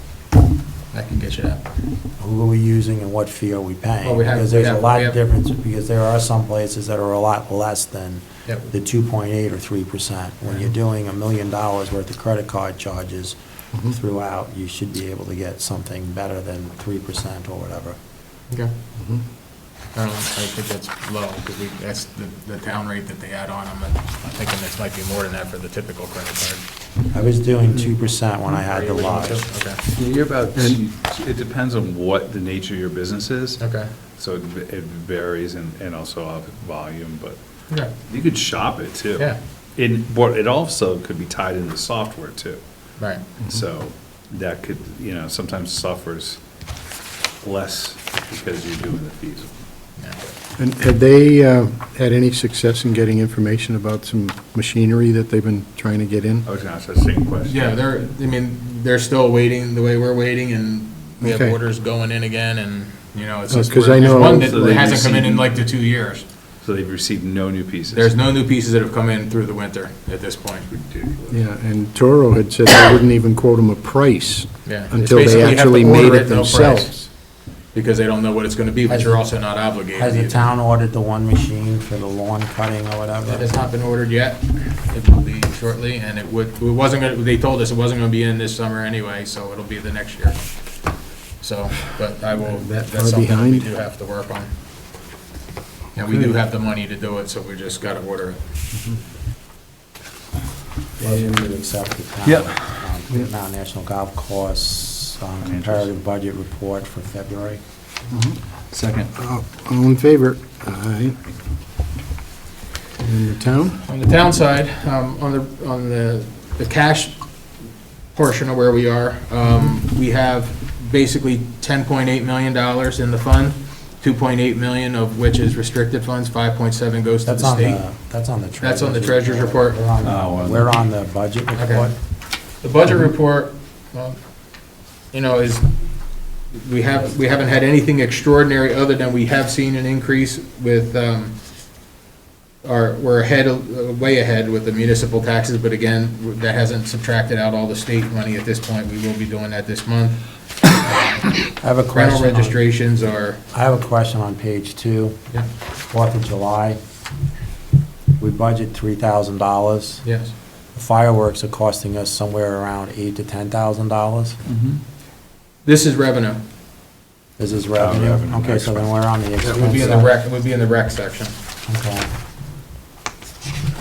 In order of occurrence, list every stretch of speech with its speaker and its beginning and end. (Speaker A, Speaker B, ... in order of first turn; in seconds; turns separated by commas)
Speaker A: 0.9-1.7, Speaker B: 2.2-18.0, Speaker A: 4.0-5.2, Speaker C: 19.0-19.2, Speaker A: 19.9-26.6, Speaker B: 27.1-29.4, Speaker A: 28.6-29.8, Speaker D: 29.9-33.6, Speaker A: 33.6-33.9, Speaker D: 34.2-37.4, Speaker D: 38.1-42.6, Speaker A: 43.0-43.2, Speaker D: 43.5-46.4, Speaker D: 47.4-49.5, Speaker A: 50.0-50.3, Speaker C: 50.6-56.5, Speaker D: 56.4-57.8, Speaker A: 57.5-66.2, Speaker C: 61.2-61.5, Speaker C: 63.5-64.8, Speaker D: 64.1-65.5, Speaker D: 66.6-68.1, Speaker A: 67.9-71.4, Speaker C: 71.3-76.9, Speaker A: 74.7-77.1, Speaker A: 77.7-80.5, Speaker B: 78.9-79.2, Speaker B: 79.9-83.7, Speaker A: 83.3-90.9, Speaker A: 91.4-94.5, Speaker C: 92.4-93.7, Speaker A: 96.0-98.4, Speaker B: 101.0-107.6, Speaker C: 101.0-101.4, Speaker D: 102.2-102.8, Speaker D: 105.4-105.9, Speaker C: 108.1-108.4, Speaker D: 108.7-109.1, Speaker C: 109.2-111.2, Speaker C: 113.0-113.8, Speaker A: 113.9-117.4, Speaker A: 118.1-127.8, Speaker B: 127.2-131.9, Speaker A: 128.6-129.8, Speaker D: 130.0-130.7, Speaker A: 131.6-131.9, Speaker A: 132.6-134.2, Speaker A: 135.1-135.7, Speaker A: 136.4-141.4, Speaker A: 142.6-150.2, Speaker A: 150.8-151.4, Speaker B: 151.6-152.6, Speaker A: 151.9-153.4, Speaker B: 153.5-155.2, Speaker B: 155.9-156.8, Speaker B: 158.2-160.0, Speaker A: 160.0-160.3, Speaker B: 160.8-164.4, Speaker D: 164.5-164.8, Speaker A: 165.7-166.4, Speaker B: 167.4-170.1, Speaker D: 167.8-168.9, Speaker A: 169.5-171.3, Speaker B: 171.7-172.1